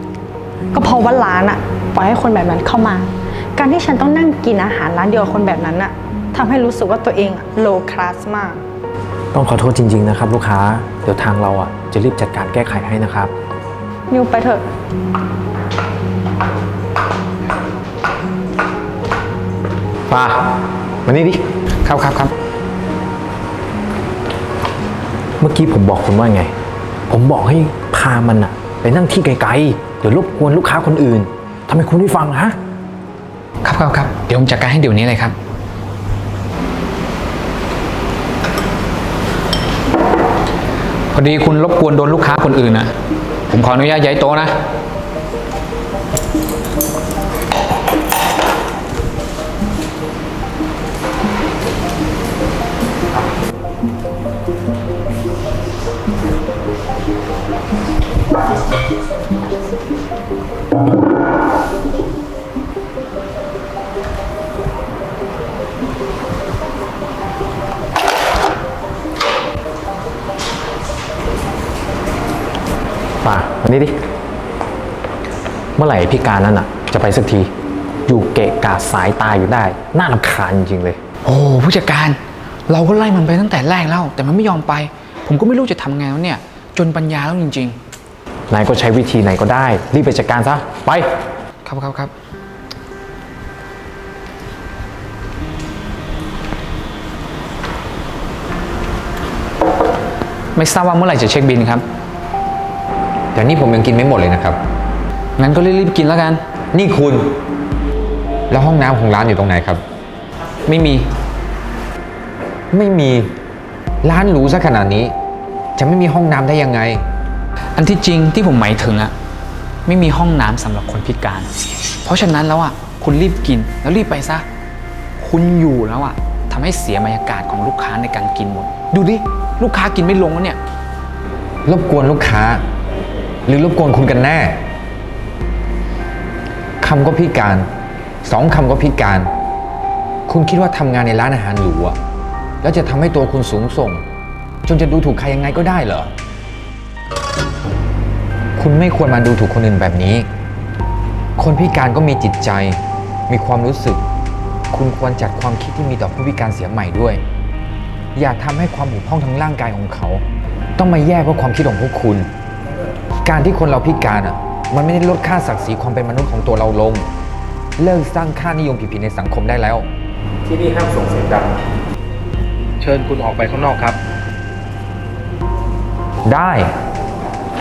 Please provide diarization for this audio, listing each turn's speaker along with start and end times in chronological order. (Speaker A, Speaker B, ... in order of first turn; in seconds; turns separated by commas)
Speaker A: 0.7-8.6, Speaker B: 9.3-13.3, Speaker A: 14.1-14.7, Speaker B: 20.1-21.4, Speaker C: 21.8-22.3, Speaker B: 25.4-26.5, Speaker B: 27.1-32.5, Speaker C: 33.6-35.3, Speaker C: 41.1-42.9, Speaker C: 43.5-44.5, Speaker B: 73.2-74.0, Speaker B: 75.8-77.5, Speaker B: 78.1-81.0, Speaker C: 81.2-87.8, Speaker B: 88.5-91.1, Speaker C: 91.6-92.1, Speaker C: 100.5-101.8, Speaker D: 103.3-104.6, Speaker C: 105.4-106.4, Speaker D: 106.7-107.3, Speaker D: 108.5-109.8, Speaker C: 110.7-111.1, Speaker D: 112.7-113.3, Speaker D: 114.0-115.1, Speaker D: 115.8-117.0, Speaker C: 117.8-119.1, Speaker C: 119.8-121.5, Speaker C: 122.0-124.4, Speaker C: 125.2-130.6, Speaker D: 131.7-132.6, Speaker D: 133.5-134.6, Speaker D: 136.8-137.7, Speaker D: 138.2-139.3, Speaker D: 140.3-142.0, Speaker D: 142.6-144.0, Speaker D: 144.7-146.1, Speaker D: 148.6-150.3, Speaker D: 151.4-154.0, Speaker D: 154.7-157.2, Speaker D: 158.2-160.2, Speaker D: 160.8-162.3, Speaker D: 163.2-167.1, Speaker D: 167.8-169.8, Speaker B: 170.5-171.5, Speaker B: 172.8-174.0, Speaker D: 176.2-176.7